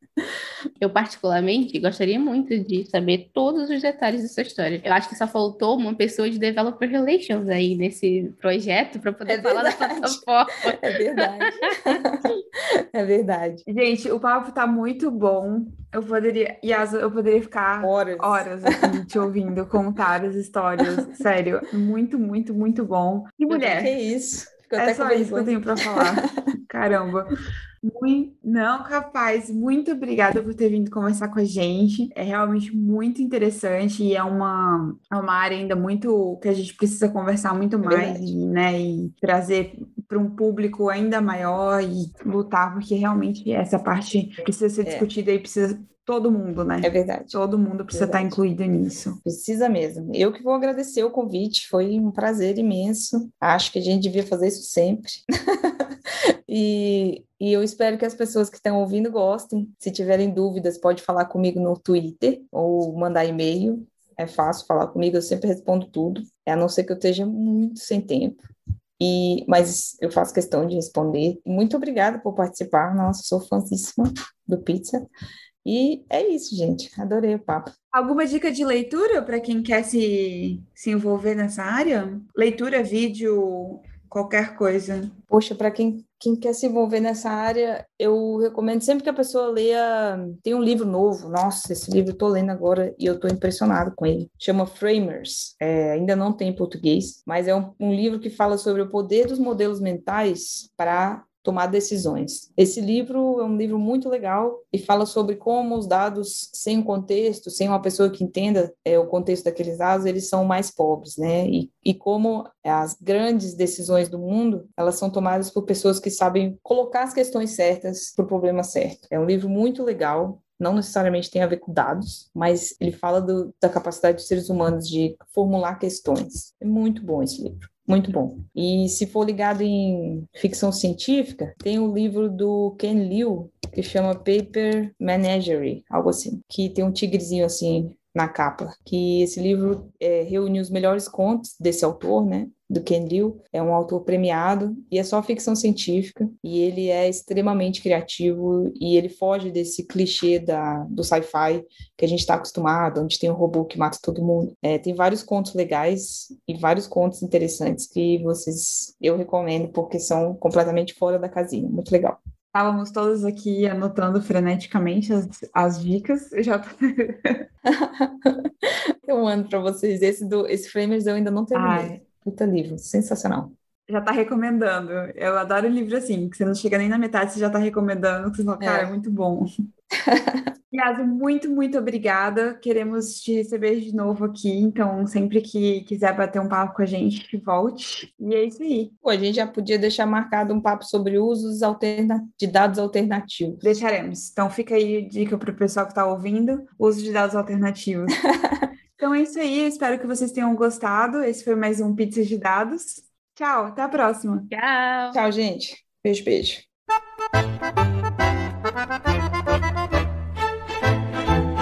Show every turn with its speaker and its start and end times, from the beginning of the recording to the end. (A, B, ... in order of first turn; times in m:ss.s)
0:00.8-0:11.9 A
0:09.2-0:13.6 B
0:13.6-0:23.9 C
0:17.8-0:18.9 B
0:23.5-0:26.1 B
0:24.8-0:49.2 C
0:37.8-0:38.2 B
0:46.8-0:47.4 B
0:47.9-0:48.4 B
0:49.2-0:55.9 B
0:56.5-1:08.4 B
1:09.0-1:15.1 B
1:15.6-1:17.7 B
1:17.9-1:25.1 C
1:25.3-2:42.2 B
2:42.5-2:47.4 C
2:47.6-2:48.5 B
2:49.0-2:53.5 B
2:51.5-2:51.9 C
2:53.9-2:59.5 C
2:58.6-2:58.9 B
3:00.0-3:00.5 B
3:00.7-3:08.9 C
3:09.0-3:13.7 B
3:13.6-3:18.2 C
3:18.3-3:18.7 B
3:19.0-3:24.5 C
3:24.5-3:25.2 A
3:25.1-3:26.6 B